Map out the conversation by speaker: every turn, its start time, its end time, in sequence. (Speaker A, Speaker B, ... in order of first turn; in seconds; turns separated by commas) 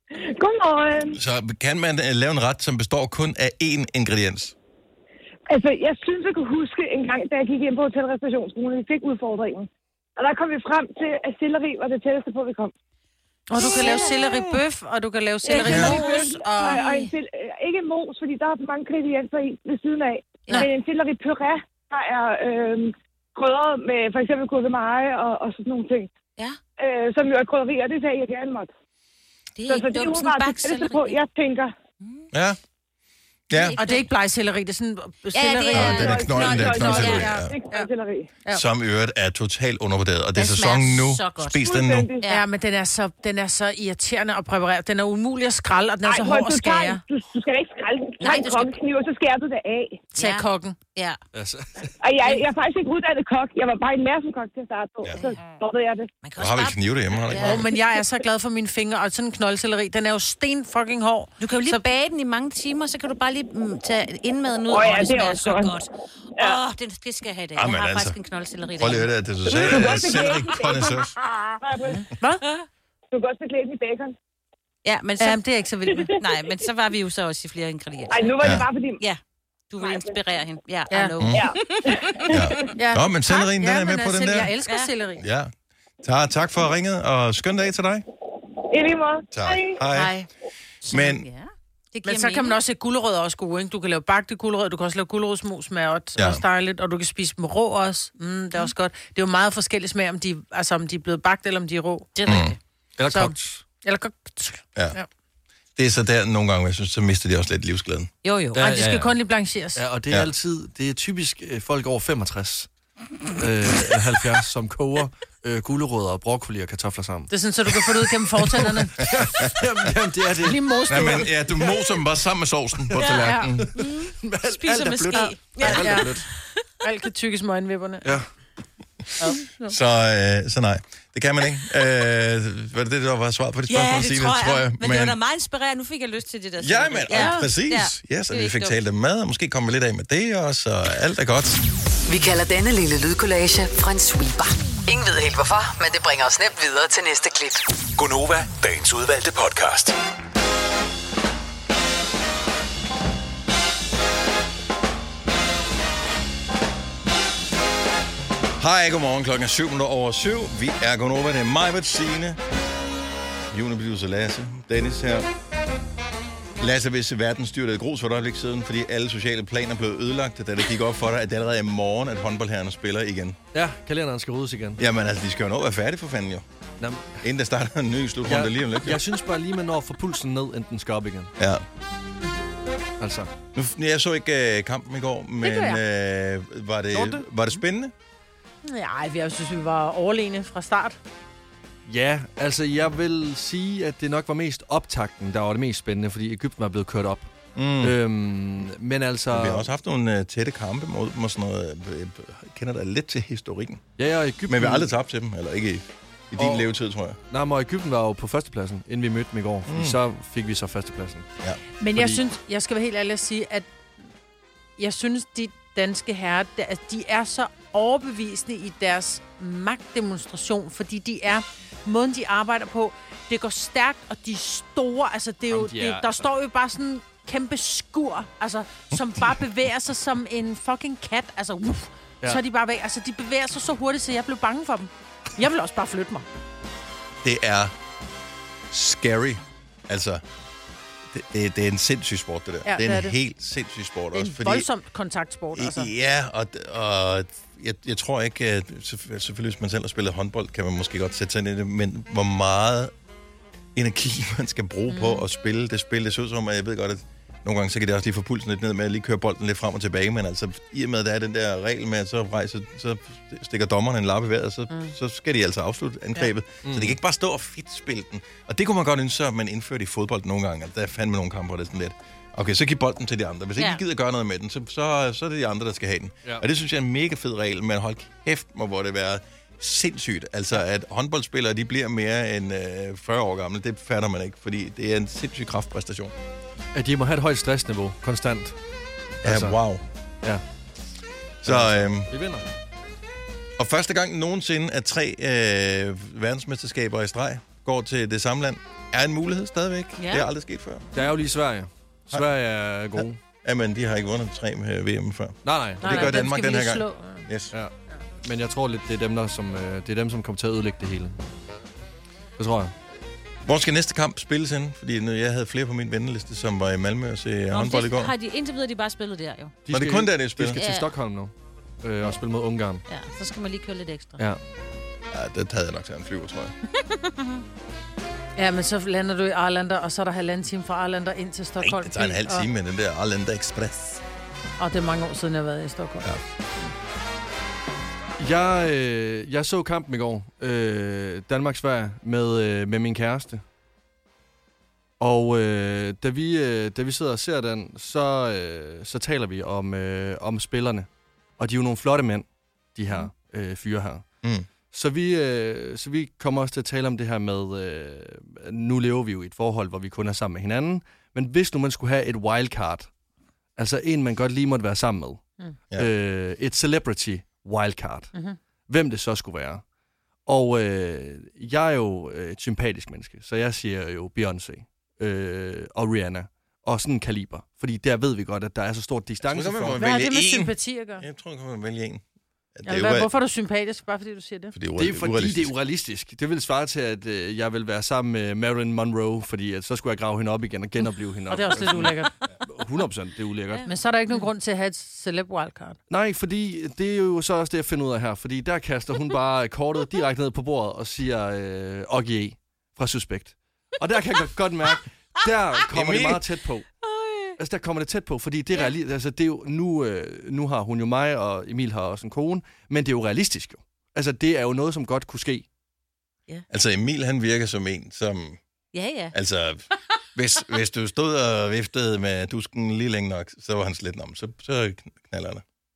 Speaker A: 0.1-1.2, Speaker B: 1.1-4.5, Speaker A: 5.5-12.7, Speaker C: 13.5-16.9, Speaker D: 13.6-14.5, Speaker A: 15.4-26.1, Speaker D: 15.5-17.1, Speaker B: 15.7-15.9, Speaker A: 26.8-28.7, Speaker D: 29.6-31.2, Speaker A: 29.7-31.7, Speaker D: 32.0-32.3, Speaker B: 32.3-32.6, Speaker B: 33.5-33.8, Speaker D: 33.5-34.1, Speaker C: 33.8-37.9, Speaker D: 35.3-37.3, Speaker B: 35.7-37.5, Speaker A: 35.9-38.3, Speaker B: 38.5-42.1, Speaker D: 40.4-41.6, Speaker A: 41.6-42.2, Speaker C: 42.3-47.0, Speaker A: 46.0-50.0, Speaker D: 48.2-48.8, Speaker C: 50.1-50.8, Speaker D: 50.2-51.2, Speaker E: 51.3-51.9, Speaker A: 52.0-56.1, Speaker D: 56.2-57.7, Speaker B: 56.4-57.7, Speaker C: 57.4-61.8, Speaker D: 61.4-69.1, Speaker A: 64.7-65.8, Speaker B: 67.5-68.2, Speaker B: 68.8-71.2, Speaker A: 69.5-72.0, Speaker C: 71.9-72.4, Speaker A: 73.1-74.1, Speaker D: 74.8-75.4, Speaker C: 75.2-76.1, Speaker D: 76.2-82.4, Speaker A: 78.1-79.0, Speaker B: 78.4-78.7, Speaker A: 79.8-80.2, Speaker C: 80.9-81.2, Speaker B: 81.2-81.5, Speaker A: 81.3-82.7, Speaker B: 82.3-84.5, Speaker C: 82.7-85.2, Speaker B: 85.2-85.5, Speaker B: 86.0-88.0, Speaker A: 88.7-89.8, Speaker B: 89.3-90.2, Speaker D: 90.9-92.6, Speaker B: 90.9-91.2, Speaker C: 92.0-102.2, Speaker B: 96.2-96.4, Speaker D: 102.2-102.6, Speaker B: 102.2-102.5, Speaker E: 103.0-103.6, Speaker C: 103.1-105.1, Speaker B: 105.8-108.1, Speaker D: 108.2-108.6, Speaker E: 108.5-109.2, Speaker C: 108.6-109.8, Speaker E: 109.8-112.7, Speaker E: 113.4-121.8, Speaker C: 117.3-119.0, Speaker B: 119.2-119.5, Speaker C: 120.4-121.3, Speaker B: 120.9-123.7, Speaker E: 122.9-126.2, Speaker D: 123.0-126.6, Speaker C: 123.2-123.5, Speaker C: 125.1-126.1, Speaker C: 126.8-128.1, Speaker C: 129.2-129.7, Speaker B: 129.6-135.2, Speaker D: 133.7-138.8, Speaker B: 136.6-141.6, Speaker C: 137.1-137.4, Speaker F: 142.1-147.6, Speaker G: 148.0-150.0, Speaker B: 158.6-162.4, Speaker B: 163.5-165.3, Speaker B: 166.6-173.4, Speaker E: 173.5-174.8, Speaker B: 174.8-176.4, Speaker E: 176.8-177.2, Speaker B: 177.2-179.0, Speaker E: 178.2-181.3, Speaker B: 181.4-181.6, Speaker E: 183.0-183.3, Speaker B: 183.5-187.9, Speaker C: 185.4-185.8, Speaker E: 186.9-187.2, Speaker C: 188.6-191.0, Speaker E: 191.9-197.3, Speaker B: 197.6-197.9, Speaker E: 197.8-199.7, Speaker B: 199.3-203.8, Speaker E: 204.0-204.9, Speaker B: 204.5-207.2, Speaker E: 206.4-206.7, Speaker E: 207.3-211.3, Speaker B: 209.7-210.0, Speaker C: 211.8-213.7, Speaker C: 214.8-236.2, Speaker E: 225.5-226.2, Speaker B: 237.2-237.7, Speaker B: 238.7-240.2, Speaker B: 241.1-244.7, Speaker C: 242.7-243.2, Speaker C: 244.1-245.9, Speaker B: 245.5-252.9, Speaker B: 253.7-286.1, Speaker C: 254.9-255.2, Speaker E: 266.6-266.9, Speaker E: 286.7-288.6, Speaker E: 289.2-289.6, Speaker B: 289.2-289.8, Speaker B: 291.4-292.1, Speaker E: 291.4-292.4, Speaker B: 293.6-300.9, Speaker D: 300.0-300.2, Speaker E: 300.9-303.2, Speaker B: 303.0-307.5, Speaker E: 305.4-306.2, Speaker C: 305.8-307.2, Speaker E: 307.5-311.2, Speaker E: 312.4-312.7, Speaker B: 313.4-318.1, Speaker D: 317.5-319.6, Speaker E: 319.6-322.8, Speaker B: 319.7-320.6, Speaker D: 320.5-320.9, Speaker D: 322.9-324.2, Speaker B: 325.1-326.6, Speaker D: 326.9-327.4, Speaker C: 328.4-332.5, Speaker B: 331.6-334.0, Speaker C: 334.6-336.1, Speaker E: 338.2-343.4, Speaker E: 345.0-354.1, Speaker B: 354.2-354.5, Speaker E: 354.7-362.9, Speaker E: 363.6-368.1, Speaker E: 368.7-369.6, Speaker E: 370.2-379.8, Speaker B: 379.2-382.0, Speaker C: 379.8-381.1, Speaker B: 382.6-383.1, Speaker C: 382.6-384.6, Speaker B: 384.5-385.5, Speaker E: 384.8-393.7, Speaker C: 391.3-392.1, Speaker C: 393.6-395.8, Speaker E: 395.9-406.7, Speaker B: 405.7-406.2, Speaker D: 406.8-407.4, Speaker E: 407.4-415.5, Speaker B: 416.5-418.4, Speaker D: 418.7-419.1, Speaker B: 419.1-425.4